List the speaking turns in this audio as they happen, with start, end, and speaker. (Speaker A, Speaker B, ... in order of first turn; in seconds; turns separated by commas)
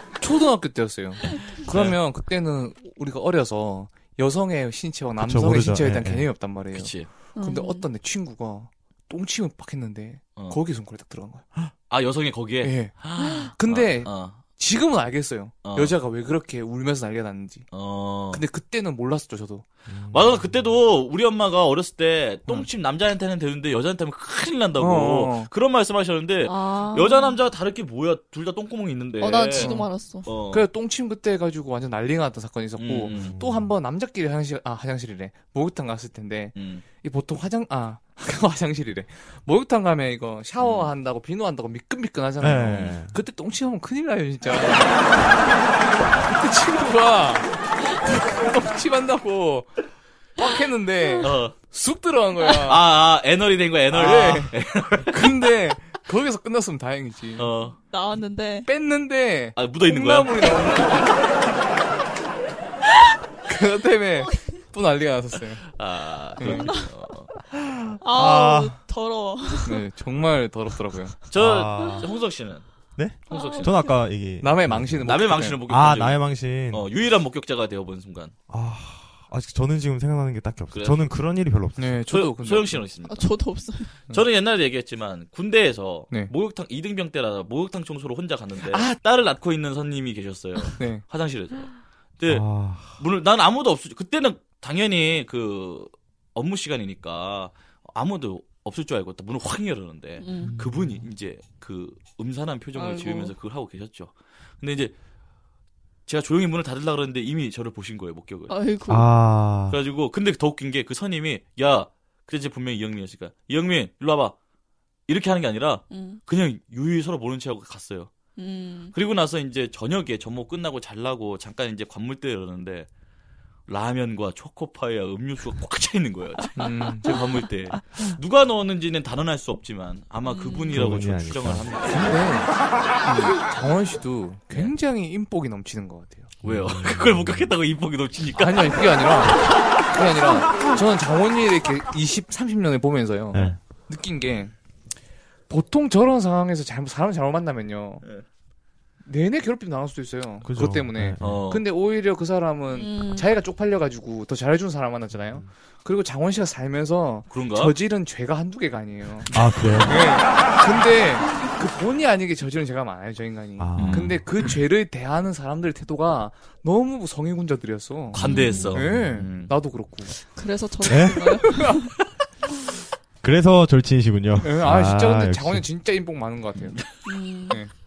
Speaker A: 0.2-11.4, Speaker B: 1.7-2.0, Speaker C: 5.2-6.3, Speaker B: 6.7-7.1, Speaker D: 7.3-7.9, Speaker B: 10.3-10.6, Speaker B: 11.9-14.4, Speaker A: 12.6-17.7, Speaker B: 15.6-16.0, Speaker B: 17.7-18.4, Speaker A: 18.3-19.6, Speaker C: 19.9-20.8, Speaker B: 20.1-30.6, Speaker A: 24.8-25.5, Speaker D: 26.4-27.4, Speaker D: 29.2-30.4, Speaker A: 29.5-29.9, Speaker A: 30.5-45.4, Speaker B: 32.8-33.4, Speaker C: 33.1-33.7, Speaker B: 36.5-36.8, Speaker B: 40.6-40.9, Speaker C: 42.4-43.1, Speaker A: 46.2-49.8, Speaker A: 50.4-52.8, Speaker B: 51.2-51.5, Speaker B: 52.5-55.5, Speaker A: 53.9-57.5, Speaker B: 57.4-57.8, Speaker D: 57.5-58.7, Speaker A: 58.7-61.1, Speaker B: 59.5-60.5, Speaker D: 60.4-60.7, Speaker A: 63.5-65.7, Speaker D: 64.2-64.5, Speaker B: 65.3-67.3, Speaker A: 66.4-66.7, Speaker D: 66.4-66.9, Speaker C: 67.5-68.7, Speaker D: 68.0-69.9, Speaker A: 69.6-71.1, Speaker B: 71.3-72.7, Speaker C: 71.3-72.1, Speaker C: 73.0-76.9, Speaker D: 73.3-73.9, Speaker B: 73.3-73.9, Speaker A: 74.4-75.6, Speaker B: 75.0-78.3, Speaker C: 78.5-82.0, Speaker B: 80.7-81.1, Speaker A: 81.8-82.9, Speaker B: 82.1-83.3, Speaker D: 83.0-84.0, Speaker B: 84.1-104.9, Speaker A: 88.6-88.9, Speaker A: 90.8-91.0, Speaker C: 92.3-93.0, Speaker D: 100.2-100.6, Speaker C: 100.4-101.0, Speaker D: 102.7-103.3, Speaker B: 106.1-108.5, Speaker D: 108.5-109.1, Speaker C: 108.9-109.8, Speaker B: 109.7-114.3, Speaker B: 115.1-118.1, Speaker D: 115.9-116.2, Speaker D: 118.3-118.9, Speaker B: 118.9-122.9, Speaker B: 123.7-132.5, Speaker A: 126.6-127.1, Speaker D: 130.2-130.8, Speaker C: 130.7-132.4, Speaker A: 132.0-132.5, Speaker A: 133.0-136.3, Speaker B: 136.4-139.3, Speaker C: 136.4-137.6, Speaker A: 138.2-144.5, Speaker C: 143.3-143.6, Speaker A: 145.5-148.0, Speaker A: 149.0-170.2, Speaker C: 150.4-151.4, Speaker B: 151.2-151.6, Speaker D: 152.7-153.3, Speaker C: 155.1-155.5, Speaker B: 157.3-157.8, Speaker C: 159.3-160.1, Speaker B: 159.3-159.9, Speaker C: 163.6-164.2, Speaker B: 163.8-164.2, Speaker B: 168.1-169.6, Speaker D: 168.2-168.9, Speaker D: 170.2-171.9, Speaker C: 170.9-171.4, Speaker C: 173.2-175.7, Speaker A: 174.4-177.0, Speaker D: 177.0-177.6